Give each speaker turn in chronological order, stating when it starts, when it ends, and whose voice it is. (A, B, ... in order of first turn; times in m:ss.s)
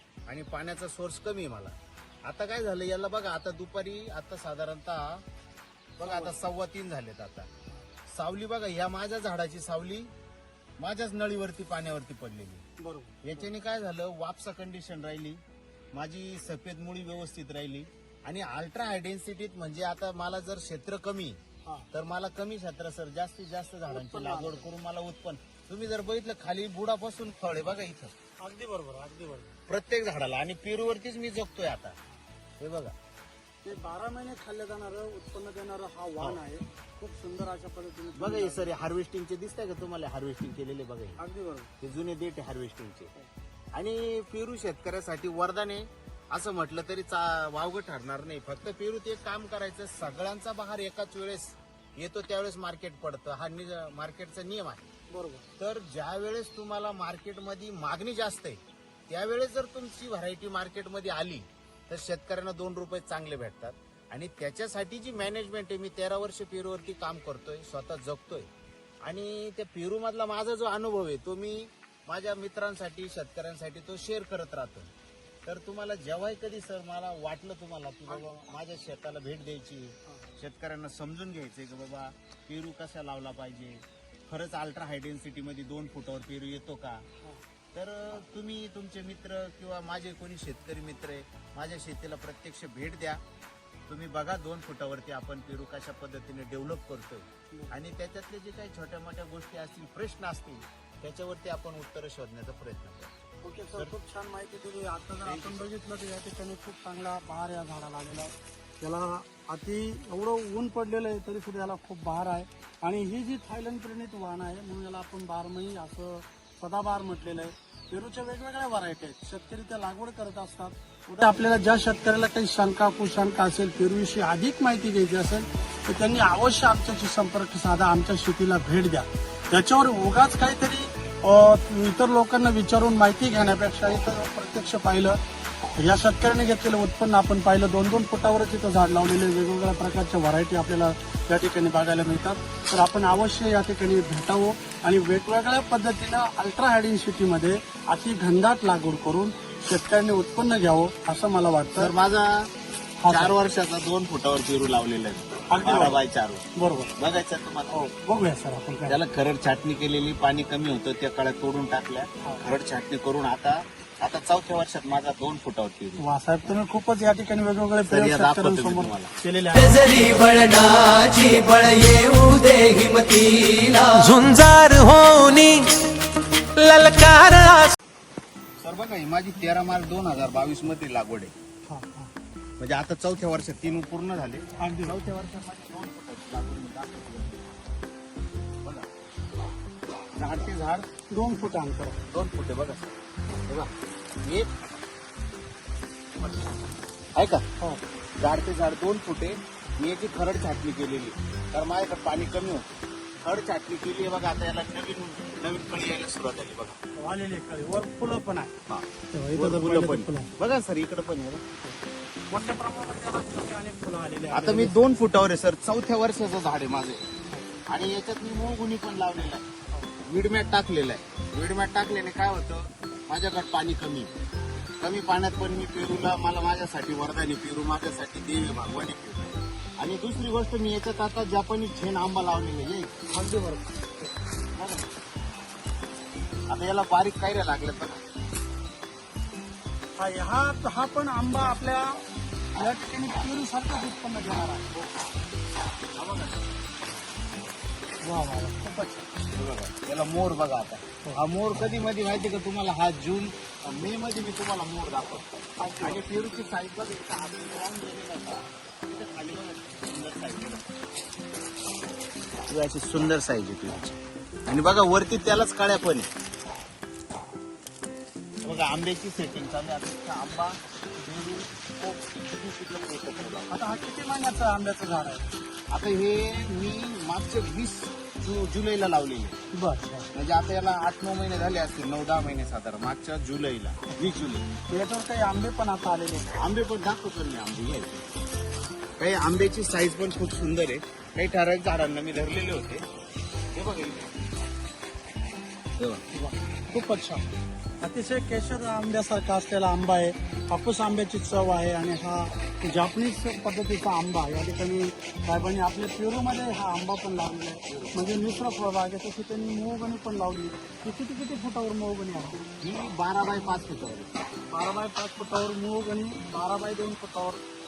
0:00.3-0:05.2 A
0:06.0-0:07.5 A
0:06.0-0:06.4 B
0:08.1-0:10.1 A
0:10.8-0:12.6 A
0:12.8-0:13.4 B
0:13.2-0:15.4 A
0:15.9-0:21.4 A
0:21.9-0:28.1 A
0:23.9-0:24.7 B
0:28.4-0:29.6 B
0:29.7-0:32.0 A
0:32.6-0:33.0 A
0:33.6-0:38.7 B
0:38.2-0:41.2 A
0:41.2-0:41.7 B
0:41.8-0:43.1 A
0:43.7-0:54.9 A
0:55.1-0:55.5 B
0:55.6-1:08.5 A
1:09.0-1:14.9 A
1:15.4-1:27.1 A
1:18.1-1:18.4 B
1:20.1-1:20.3 B
1:27.7-1:33.2 A
1:33.9-1:43.1 A
1:37.5-1:37.8 B
1:43.4-2:15.2 B
1:45.2-1:45.7 A
2:15.8-2:31.9 B
2:31.8-2:32.5 A
2:33.0-2:33.3 B
2:33.1-2:36.5 A
2:35.5-2:36.0 B
2:36.6-2:37.0 B
2:37.0-2:37.8 A
2:37.7-2:39.0 B
2:38.8-2:46.0 A
2:46.0-2:50.0 B
2:47.9-2:49.1 A
2:49.6-2:55.7 C
2:56.6-2:57.7 C
2:58.6-3:01.3 A
3:01.7-3:02.1 B
3:02.6-3:07.6 A
3:04.6-3:05.0 B
3:08.6-3:09.0 A
3:10.2-3:10.9 A
3:11.1-3:12.0 B
3:12.1-3:13.7 A
3:14.2-3:14.5 A
3:17.2-3:17.4 A
3:18.2-3:26.8 A
3:27.0-3:28.6 B
3:28.7-3:31.4 A
3:29.1-3:30.3 B
3:32.3-3:34.8 B
3:34.3-3:37.1 A
3:37.7-3:39.5 A
3:40.0-3:44.1 A
3:44.8-3:52.9 A
3:53.1-3:54.1 B
3:54.6-3:54.9 A
3:56.5-3:58.0 A
4:00.0-4:04.8 B
4:02.6-4:03.3 A
4:06.0-4:06.5 A
4:08.0-4:08.8 B
4:08.8-4:20.7 A
4:15.6-4:16.1 B
4:22.5-4:26.1 A
4:28.4-4:33.6 A
4:33.5-4:35.3 B
4:35.7-4:39.4 A
4:39.5-4:40.1 B
4:40.1-4:44.5 A
4:44.7-4:46.3 B
4:46.4-4:48.1 A
4:49.0-4:52.8 A
4:53.5-4:54.2 A
4:55.8-4:56.0 A
4:56.1-4:57.3 B
4:57.8-5:12.4 B
5:07.7-5:08.0 A
5:12.6-5:14.2 A
5:14.5-5:17.4 B